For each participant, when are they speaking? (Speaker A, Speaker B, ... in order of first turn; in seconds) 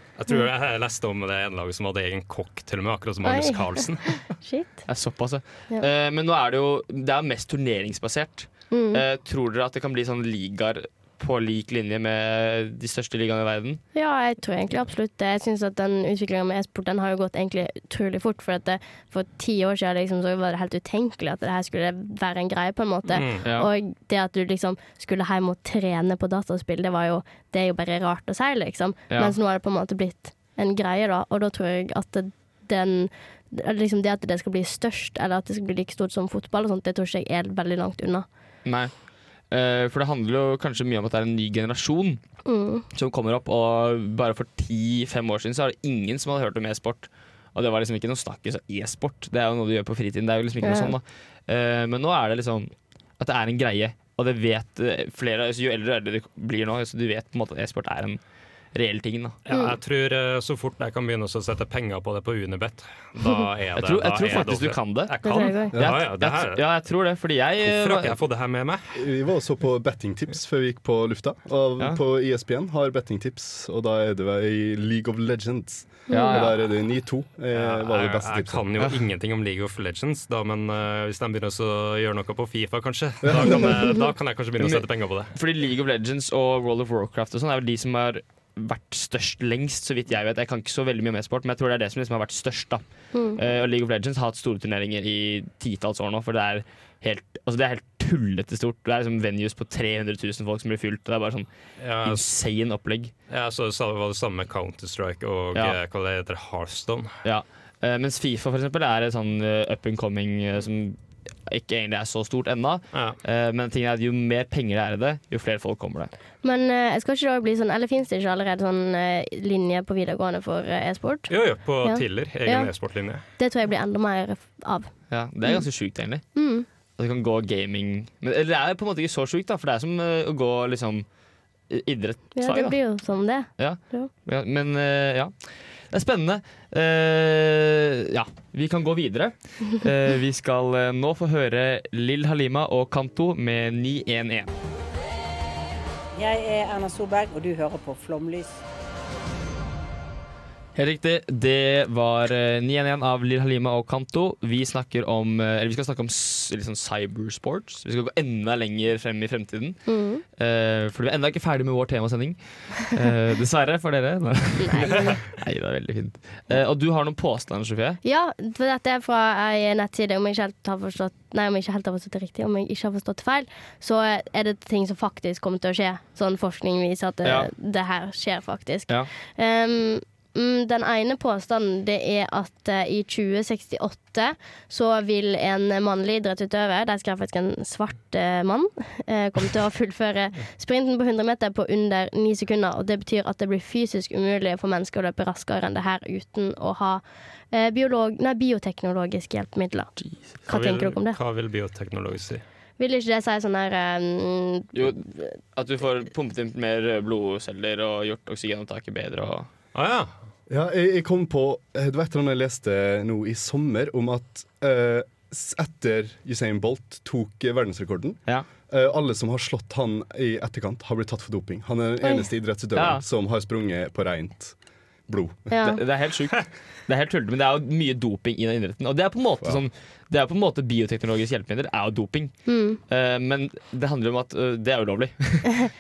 Speaker A: 0.2-4.2, 23.1-23.4, 59.5-66.6, 67.6-69.0, 77.5-85.3, 101.8-102.2, 103.3-107.2, 112.9-113.2, 121.3-123.2, 200.5-202.4, 209.7-210.1
Speaker B: 3.2-3.9, 4.4-4.8, 8.7-9.0, 13.9-38.3, 42.5-42.9, 50.6-50.9, 59.5-59.8, 65.2-65.8, 76.1-76.5, 93.1-93.4, 116.4-121.3, 121.8-122.7, 123.4-124.9, 126.3-126.7, 132.4-134.1, 159.9-160.2, 164.6-165.2, 168.0-199.9, 200.5-201.2, 202.8-205.2, 225.5-225.8, 232.5-232.8
Speaker C: 4.9-13.8, 23.4-23.7, 38.6-38.9, 39.5-42.2, 42.9-58.2, 58.7-59.4, 63.8-65.1, 65.8-68.2, 76.1-76.5, 84.6-92.8, 93.4-101.5, 102.0-103.1, 107.2-116.1, 125.1-126.3, 127.0-131.1, 131.7-132.8, 133.6-135.3, 135.9-144.5, 150.8-159.8, 160.4-168.0, 177.2-177.5, 204.7-209.5, 222.8-223.0, 225.6-232.3, 232.9-235.6
Speaker D: 65.7-66.0, 69.0-78.8, 83.3-83.7, 210.5-224.6, 225.1-225.5
Speaker E: 146.2-148.6